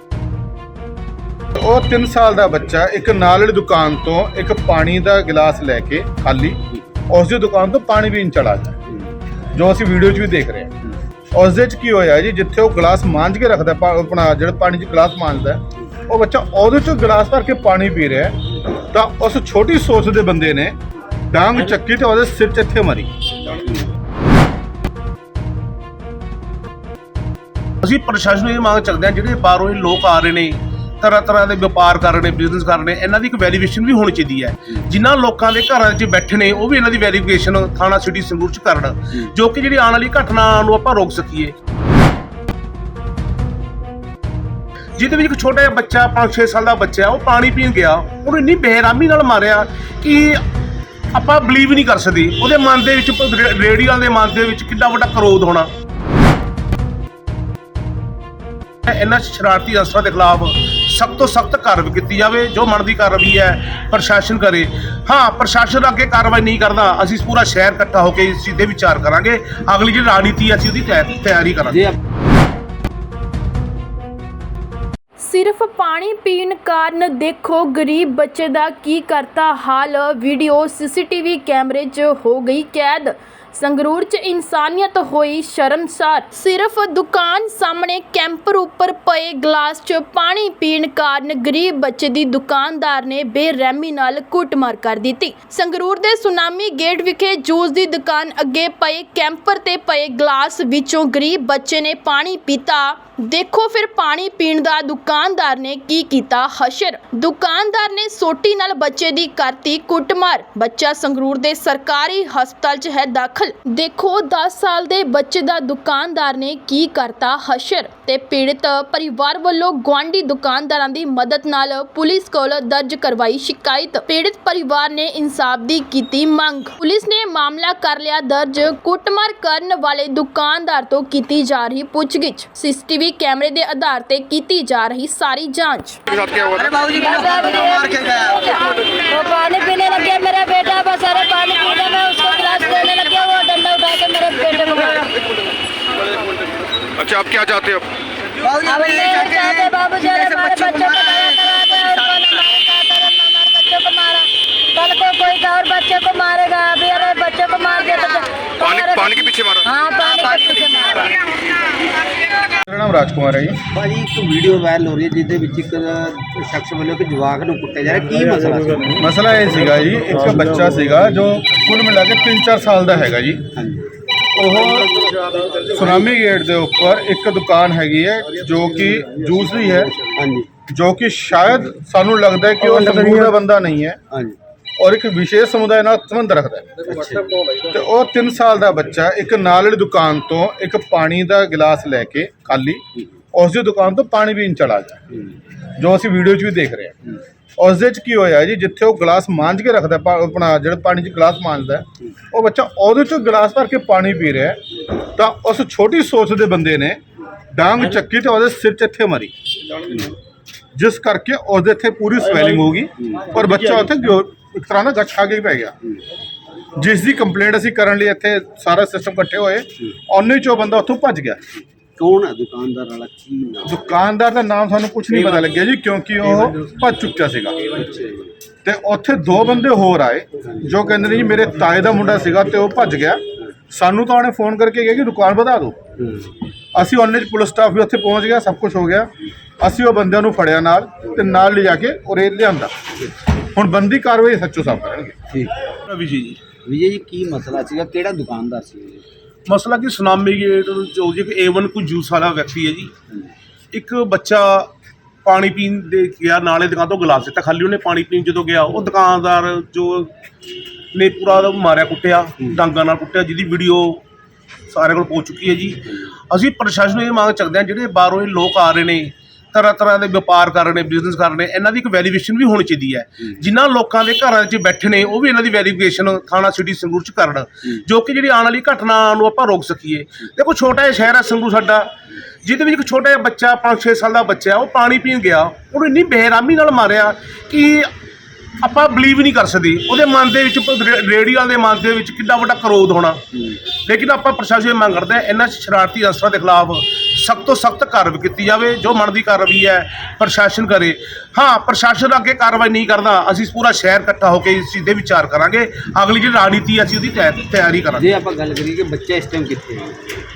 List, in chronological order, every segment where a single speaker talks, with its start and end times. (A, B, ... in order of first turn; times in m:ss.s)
0:01.6-0:08.8 A
0:09.5-0:10.7 A
0:11.3-0:20.8 A
0:21.3-0:23.1 A
0:27.8-0:41.5 B
0:45.0-0:50.4 B
0:51.1-0:55.7 B
0:58.8-1:11.8 B
1:15.2-2:16.2 C
2:16.6-2:25.2 D
2:28.5-2:41.2 D
2:42.7-2:43.6 A
2:43.7-2:49.0 E
2:49.0-2:53.5 A
2:53.6-2:53.9 E
2:54.3-2:54.9 A
2:55.0-2:56.1 E
2:55.7-3:00.0 A
3:00.1-3:00.5 E
3:00.7-3:04.0 A
3:04.8-3:06.8 A
3:06.8-3:07.5 E
3:07.6-3:15.0 A
3:15.6-3:17.0 A
3:17.6-3:24.6 A
3:25.2-3:27.0 A
3:27.5-3:29.3 A
3:30.8-3:35.8 A
3:33.0-3:33.4 E
3:36.8-3:41.4 A
3:42.0-3:43.8 E
3:43.7-3:47.7 A
3:47.8-3:48.3 E
3:48.6-3:55.8 A
3:56.0-3:56.3 E
3:56.7-3:59.1 A
3:59.6-4:02.7 A
4:03.4-4:05.2 A
4:05.9-4:06.4 B
4:06.6-4:09.0 E
4:09.5-4:12.9 B
4:13.7-4:14.7 B
4:15.2-4:20.1 B
4:20.9-4:24.0 B
4:24.7-4:41.9 B
4:42.4-4:47.9 B
4:48.6-4:53.2 B
4:53.8-5:08.1 B
5:08.0-5:10.2 E